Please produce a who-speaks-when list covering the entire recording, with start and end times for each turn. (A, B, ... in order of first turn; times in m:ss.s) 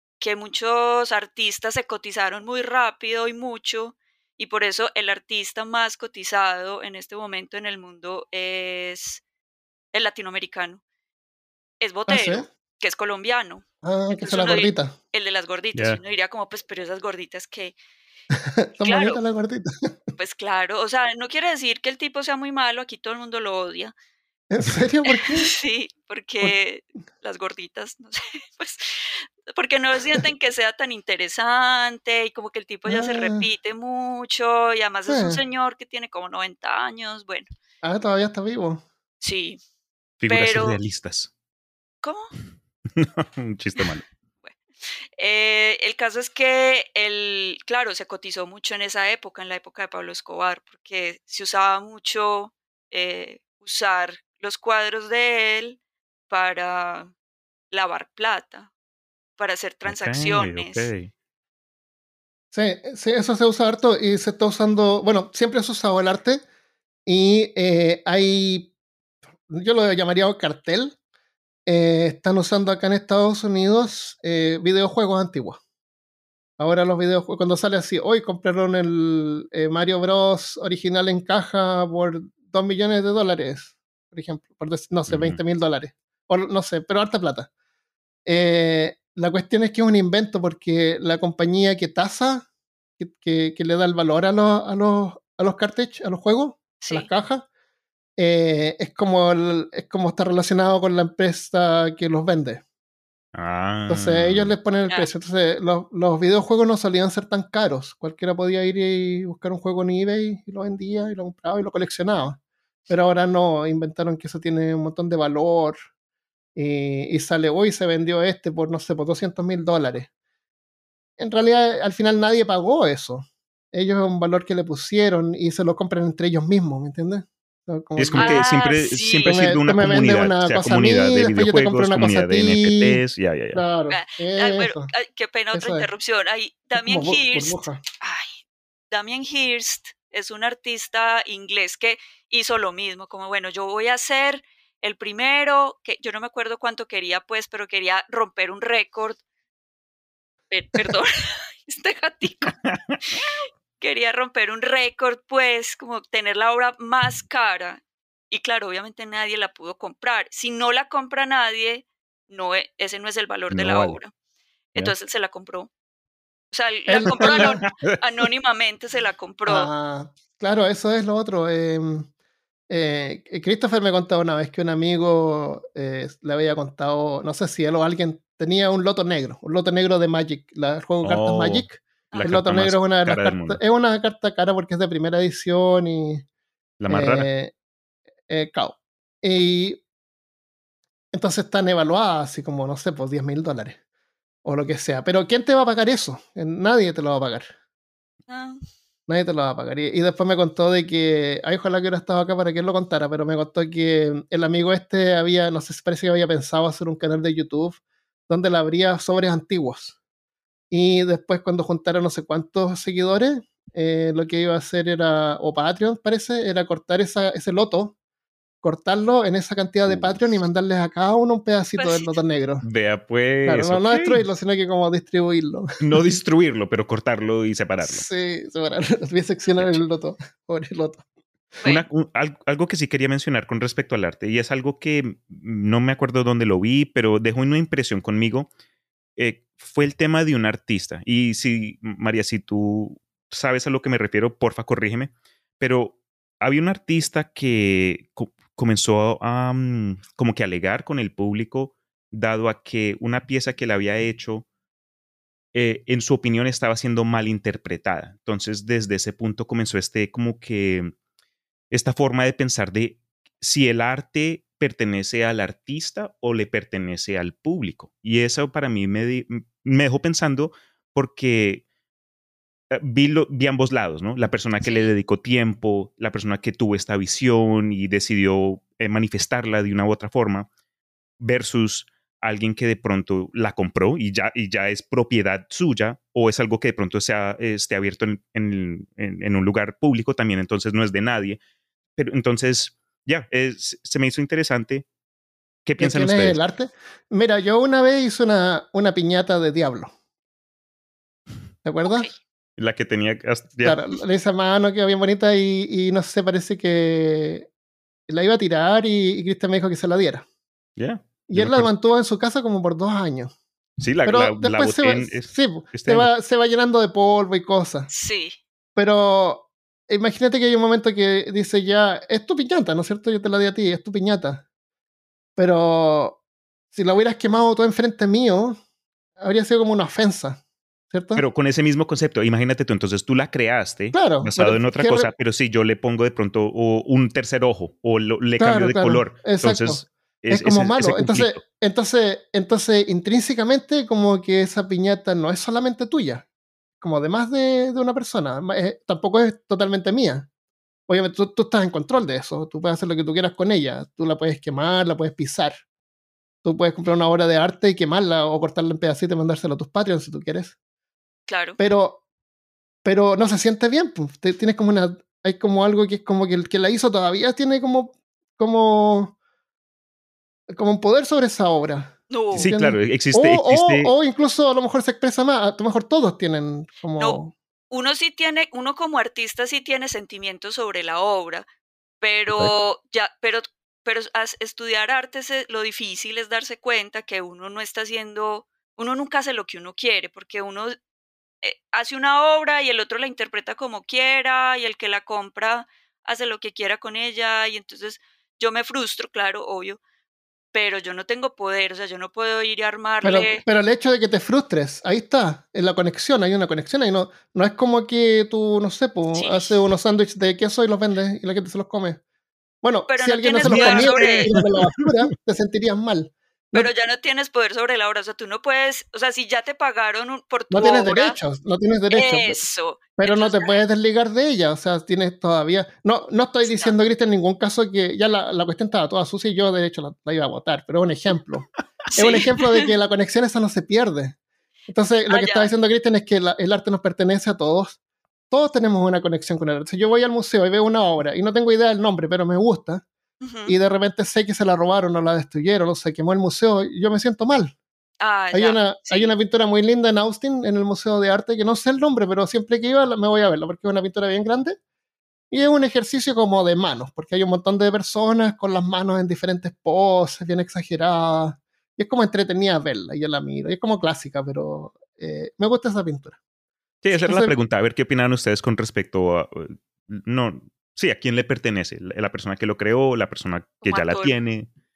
0:00.2-0:09.2 A
0:09.9-0:10.8 A
0:11.8-0:17.7 A
0:12.1-0:12.4 B
0:13.8-0:14.9 B
0:15.7-0:16.0 C
0:18.6-0:19.9 B
0:18.8-0:19.2 A
0:20.2-0:23.9 A
0:24.5-0:25.5 B
0:25.1-0:37.4 A
0:32.8-0:33.5 B
0:35.1-0:35.4 B
0:37.8-0:38.8 B
0:39.2-0:39.6 A
0:40.2-0:41.3 C
0:40.3-0:40.8 A
0:42.0-0:42.3 A
0:42.9-0:44.0 C
0:44.4-0:55.8 A
0:56.3-0:57.1 A
0:57.7-0:58.7 A
0:59.4-1:00.9 A
0:59.8-1:01.1 C
1:02.5-1:06.4 B
1:07.0-1:08.7 B
1:09.5-1:11.0 B
1:11.6-1:15.6 B
1:16.6-1:27.5 B
1:25.1-1:25.4 C
1:28.2-1:32.4 B
1:33.0-1:37.4 B
1:36.8-1:37.1 A
1:38.2-1:42.6 B
1:43.3-1:44.5 C
1:43.9-1:55.7 B
1:56.5-2:00.1 B
2:01.2-2:08.4 B
2:08.0-2:13.6 C
2:08.2-2:09.4 A
2:09.2-2:13.0 B
2:13.5-2:14.9 B
2:13.9-2:18.4 A
2:15.5-2:15.8 B
2:16.8-2:17.8 B
2:18.9-2:29.2 A
2:30.5-2:32.6 A
2:32.4-2:33.2 C
2:33.1-2:44.1 A
2:43.5-2:44.0 C
2:44.7-2:45.7 A
2:46.5-2:49.7 A
2:46.9-2:47.6 B
2:47.1-2:48.0 C
2:49.4-2:52.1 B
2:52.7-3:06.2 B
3:01.0-3:03.6 C
3:06.8-3:07.3 C
3:06.9-3:07.5 B
3:08.3-3:09.8 B
3:11.1-3:13.8 B
3:14.4-3:17.5 B
3:18.3-3:18.6 A
3:19.1-3:30.0 B
3:30.7-3:37.9 B
3:38.6-3:42.6 B
3:39.9-3:40.2 C
3:41.8-3:42.2 A
3:42.6-3:44.2 C
3:43.4-3:45.8 B
3:45.8-3:48.0 C
3:47.8-3:51.0 B
3:51.6-3:58.5 C
3:59.2-4:14.4 C
4:15.5-4:20.9 C
4:21.7-4:31.6 C
4:32.7-4:40.5 C
4:34.6-4:34.9 A
4:41.2-4:51.4 C
4:52.0-4:54.8 C
4:55.6-4:56.4 C
4:55.8-4:59.9 B
5:01.6-5:02.1 B
5:02.6-5:03.8 C
5:03.6-5:07.5 B
5:08.1-5:10.2 B
5:10.8-5:11.7 C
5:11.3-5:13.3 B
5:13.8-5:16.1 C
5:14.0-5:17.9 B
5:17.9-5:18.4 A
5:18.8-5:24.4 B
5:25.4-5:26.2 B
5:26.7-5:28.6 B
5:29.2-5:31.2 B
5:31.2-5:41.4 C
5:33.9-5:35.1 B
5:38.4-5:46.2 B
5:46.8-5:50.3 B
5:50.9-5:55.6 B
5:56.4-6:00.5 B
6:01.3-6:01.6 A
6:01.6-6:02.0 B
6:02.8-6:09.1 B
6:10.5-6:17.3 B
6:12.1-6:12.5 A
6:12.3-6:13.9 C
6:17.7-6:21.4 A
6:22.0-6:30.8 A
6:31.4-6:39.8 A
6:40.5-6:43.4 A
6:43.0-6:52.0 B
6:49.1-6:49.6 A
6:52.6-6:56.7 B
6:52.9-6:54.3 A
6:53.5-6:54.8 C
6:56.5-7:01.2 A
7:00.5-7:02.4 B
7:01.9-7:03.6 A
7:03.0-7:14.2 B
7:06.4-7:06.7 A
7:11.9-7:12.7 A
7:14.7-7:17.8 B
7:15.1-7:15.5 A
7:18.3-7:22.8 B
7:23.2-7:23.5 A
7:23.4-7:27.5 B
7:28.0-7:29.1 A
7:28.3-7:34.6 B
7:35.3-7:46.2 B
7:46.8-7:54.5 C
7:46.9-7:47.3 B
7:53.6-7:54.1 A